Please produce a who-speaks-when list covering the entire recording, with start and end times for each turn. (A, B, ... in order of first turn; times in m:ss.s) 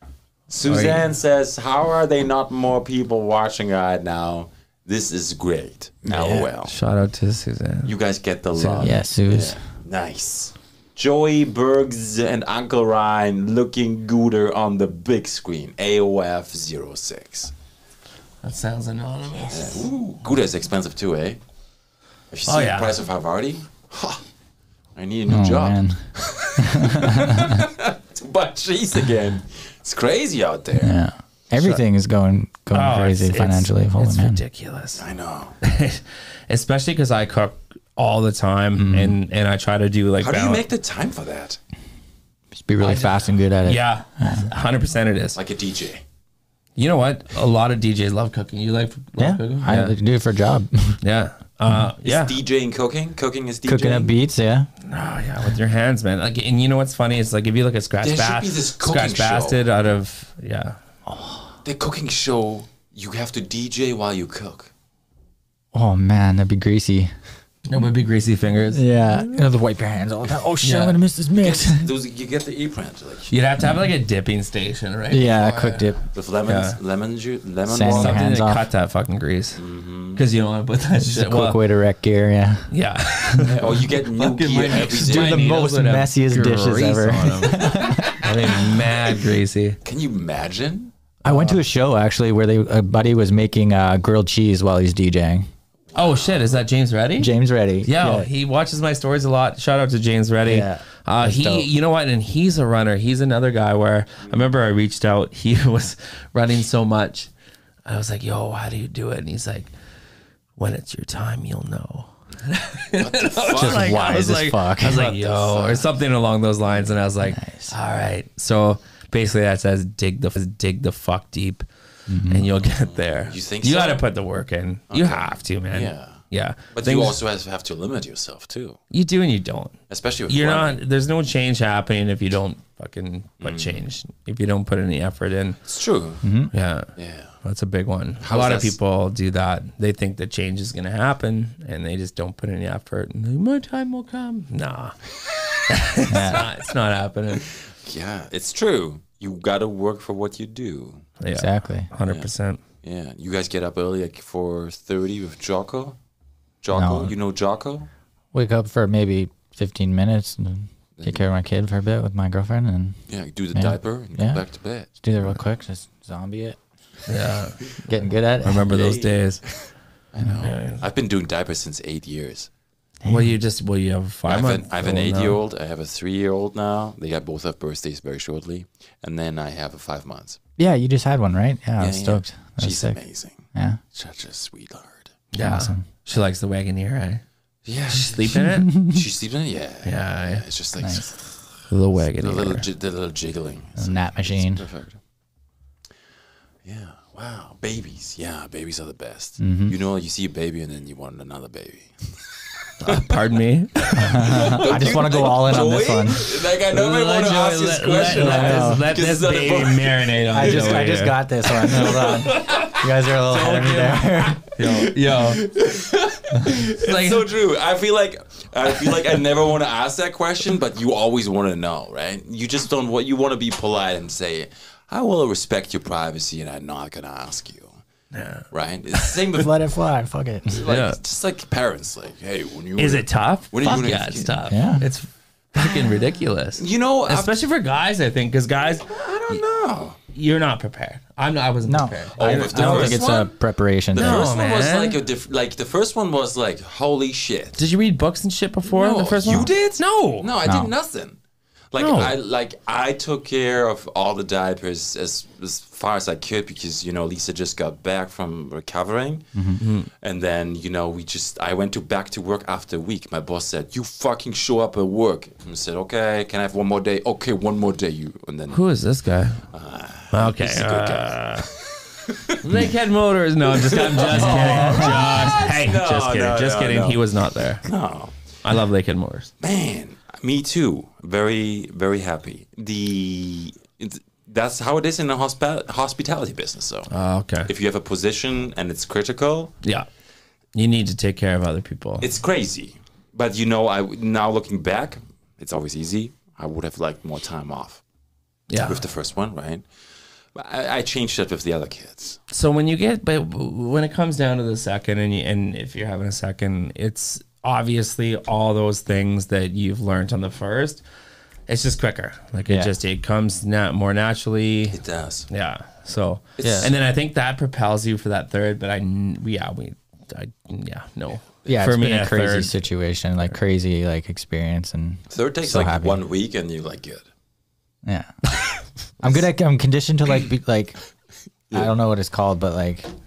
0:00.5-0:06.7 A
0:00.6-0:01.0 B
0:06.0-0:06.5 C
0:06.6-0:07.9 B
0:07.8-0:17.5 A
0:08.5-0:08.9 B
0:08.8-0:09.6 C
0:18.4-0:19.9 B
0:19.5-0:21.4 A
0:22.3-0:24.2 A
0:22.4-0:23.0 B
0:25.0-0:31.0 A
0:25.3-0:26.0 C
0:26.6-0:27.7 C
0:30.8-0:34.4 C
0:31.5-0:31.8 B
0:32.7-0:35.0 B
0:35.0-0:35.6 A
0:35.6-0:40.6 B
0:38.8-0:39.2 C
0:40.2-0:41.6 A
0:42.5-0:44.5 C
0:42.8-0:45.4 B
0:45.3-0:46.0 A
0:46.8-0:49.9 B
0:49.2-0:51.0 C
0:51.0-0:52.4 B
0:52.0-0:54.1 A
0:53.6-0:54.7 C
0:54.8-1:00.8 B
0:58.0-0:59.6 A
1:01.1-1:01.5 C
1:01.6-1:04.7 A
1:05.7-1:07.1 C
1:07.7-1:09.0 B
1:08.7-1:11.9 C
1:10.6-1:11.0 B
1:11.4-1:13.3 A
1:13.3-1:16.8 B
1:15.1-1:16.0 C
1:16.1-1:18.2 A
1:17.6-1:18.6 C
1:17.9-1:19.6 B
1:19.6-1:20.2 A
1:20.1-1:21.6 B
1:21.0-1:22.7 C
1:22.7-1:29.8 B
1:23.4-1:25.5 A
1:25.0-1:28.7 C
1:29.8-1:30.9 A
1:31.2-1:31.6 B
1:31.2-1:35.5 C
1:35.9-1:36.6 A
1:35.9-1:37.3 B
1:37.2-1:38.3 C
1:37.8-1:47.3 B
1:40.4-1:41.7 C
1:47.8-1:49.7 B
1:50.6-2:01.7 B
1:53.0-1:54.3 A
1:53.5-1:55.0 C
1:54.8-1:55.9 A
1:57.2-1:57.7 C
2:02.1-2:02.5 C
2:02.2-2:07.2 B
2:02.6-2:04.0 A
2:04.9-2:06.2 A
2:06.7-2:08.8 A
2:08.9-2:09.8 B
2:09.9-2:10.8 A
2:10.3-2:15.6 B
2:13.4-2:13.8 A
2:15.6-2:16.2 A
2:16.2-2:16.5 C
2:16.5-2:16.9 B
2:17.0-2:17.3 A
2:17.4-2:25.0 B
2:18.2-2:18.8 A
2:25.7-2:27.5 B
2:26.1-2:26.4 C
2:27.8-2:31.1 A
2:31.2-2:32.6 B
2:31.3-2:31.9 C
2:32.8-2:36.0 A
2:36.6-2:37.9 A
2:36.7-2:37.1 C
2:38.3-2:43.0 C
2:41.0-2:41.2 A
2:43.1-2:44.9 A
2:43.5-2:44.4 C
2:45.0-2:46.6 C
2:47.1-2:47.7 B
2:47.8-2:48.7 C
2:48.4-2:49.4 B
2:48.7-2:52.5 A
2:50.4-2:50.8 B
2:53.0-2:53.3 C
2:53.0-2:55.4 B
2:54.2-3:00.4 A
3:00.6-3:03.0 C
3:01.8-3:05.1 A
3:03.5-3:03.8 C
3:05.3-3:07.2 B
3:05.4-3:05.8 C
3:07.6-3:11.2 A
3:07.9-3:08.7 B
3:08.5-3:09.0 C
3:09.8-3:10.4 B
3:10.8-3:11.1 C
3:11.7-3:12.6 B
3:12.1-3:15.0 A
3:13.8-3:14.6 C
3:16.6-3:23.2 A
3:19.4-3:19.8 C
3:22.8-3:25.4 B
3:24.0-3:30.9 A
3:24.0-3:26.3 C
3:26.7-3:32.7 B
3:28.0-3:28.8 C
3:30.3-3:34.4 C
3:31.6-3:47.7 A
3:34.5-3:35.4 B
3:36.7-3:37.2 B
3:48.1-3:49.2 B
3:48.5-3:49.6 A
3:49.3-3:50.6 C
3:50.5-3:54.4 A
3:50.6-3:51.0 B
3:52.8-3:59.4 B
3:54.5-3:54.9 C
3:55.6-3:57.4 A
3:58.8-4:00.0 A
4:00.1-4:03.1 B
4:01.6-4:04.3 C
4:02.2-4:03.3 A
4:03.9-4:07.6 A
4:04.0-4:05.0 B
4:07.6-4:10.3 B
4:08.6-4:11.2 A
4:10.4-4:10.7 C
4:11.7-4:28.6 A
4:11.8-4:12.1 B
4:19.3-4:19.6 C
4:19.6-4:19.9 B
4:28.5-4:29.4 B
4:29.5-4:32.4 A
4:30.1-4:31.5 B
4:32.4-4:37.6 B
4:33.5-4:37.1 A
4:34.2-4:35.1 C
4:37.6-4:38.3 A
4:38.4-4:39.3 B
4:39.4-4:46.9 A
4:46.9-4:47.5 B
4:47.4-4:49.5 A
4:50.5-4:52.1 B
4:52.0-4:57.8 A
4:58.5-4:58.8 B
4:58.6-4:59.6 A
5:00.3-5:02.2 A
5:02.3-5:10.8 B
5:11.5-5:14.8 B
5:12.5-5:12.7 C
5:14.7-5:15.3 A
5:15.3-5:22.6 B
5:16.4-5:16.7 A
5:16.4-5:16.7 C
5:21.4-5:26.0 C
5:25.1-5:27.0 A
5:27.8-5:28.1 C
5:29.0-5:30.8 C
5:31.5-5:32.9 C